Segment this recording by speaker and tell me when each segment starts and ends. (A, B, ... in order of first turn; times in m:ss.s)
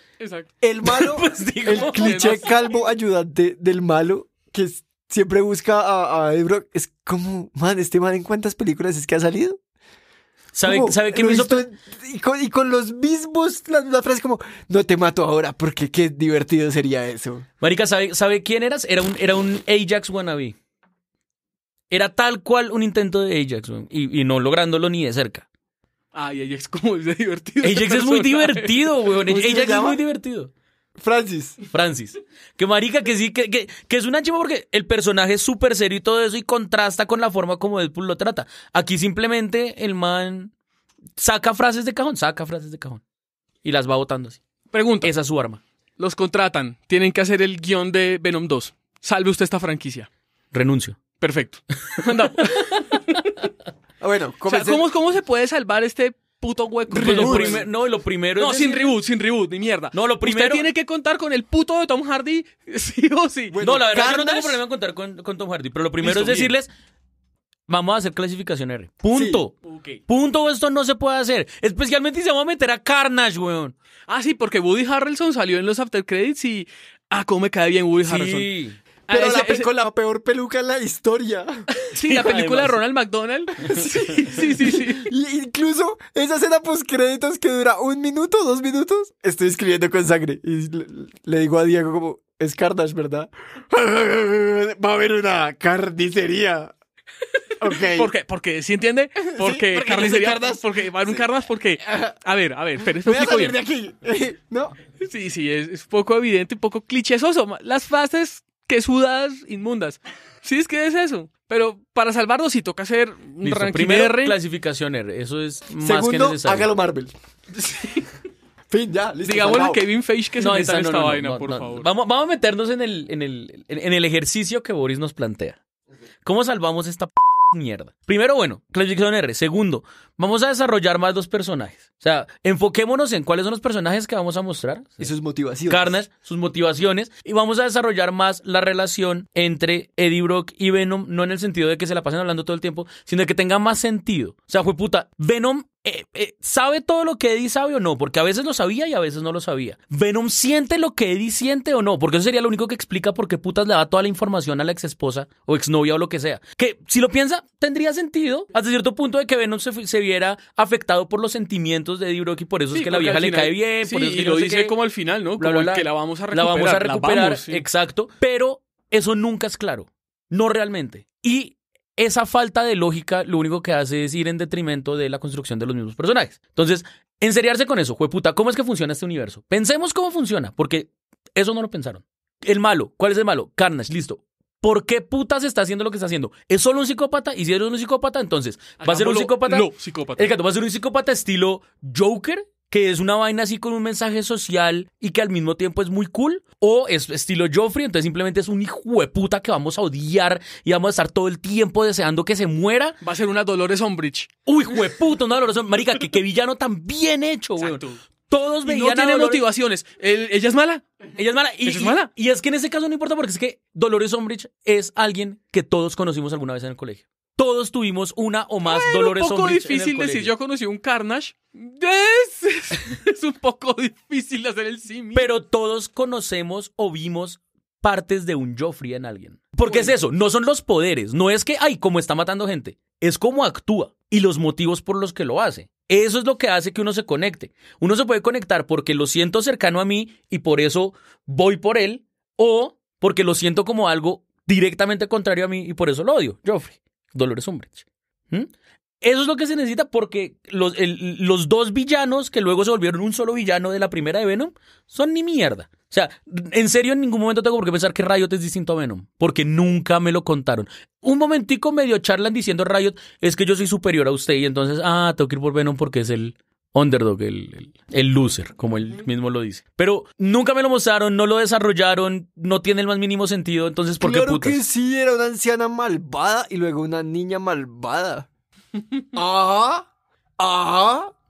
0:00.2-0:00.5 A
0:00.6-0:09.6 B
0:00.8-0:02.4 C
0:01.7-0:02.6 A
0:10.5-0:11.7 C
0:10.7-0:17.5 B
0:17.6-0:20.6 C
0:21.9-0:25.5 C
0:26.1-0:28.8 A
0:27.6-0:30.5 C
0:29.3-0:30.0 B
0:31.0-0:31.6 B
0:31.7-0:40.5 C
0:41.2-0:43.0 C
0:43.6-0:44.4 C
0:44.7-0:45.1 A
0:45.0-0:45.6 C
0:46.0-0:50.1 A
0:50.5-0:51.0 C
0:51.2-0:53.4 A
0:52.4-0:52.8 C
0:54.0-0:54.9 B
0:54.5-0:57.7 A
0:56.9-0:57.6 B
0:57.0-0:58.9 C
0:58.4-1:03.6 A
0:59.9-1:00.7 C
1:03.5-1:04.6 B
1:03.6-1:06.7 C
1:06.0-1:06.6 A
1:07.7-1:09.5 C
1:09.1-1:09.4 B
1:09.7-1:10.0 A
1:10.1-1:13.8 C
1:14.1-1:18.5 A
1:18.0-1:18.8 C
1:19.1-1:19.7 A
1:19.1-1:21.7 B
1:21.8-1:25.1 A
1:22.0-1:22.8 C
1:23.6-1:36.7 B
1:37.6-1:38.1 B
1:37.6-1:43.6 A
1:39.2-1:41.2 B
1:41.9-1:42.1 B
1:42.9-1:44.8 B
1:45.0-1:54.4 A
1:53.4-1:56.7 C
1:55.8-1:57.1 B
1:58.7-1:59.8 B
1:59.2-2:01.9 A
2:00.4-2:05.6 C
2:06.2-2:15.1 C
2:15.0-2:16.0 B
2:15.7-2:44.7 C
2:42.7-2:47.6 A
2:45.4-3:23.0 C
3:08.8-3:10.3 A
3:23.0-3:24.3 A
3:24.5-3:29.4 C
3:27.6-3:28.0 A
3:28.6-3:31.0 A
3:31.2-3:40.3 C
3:31.6-3:32.1 A
3:38.6-3:45.3 A
3:45.1-4:34.6 C
3:49.7-3:49.9 A
4:34.0-4:38.3 B
4:39.1-4:39.9 B
4:40.4-4:41.1 B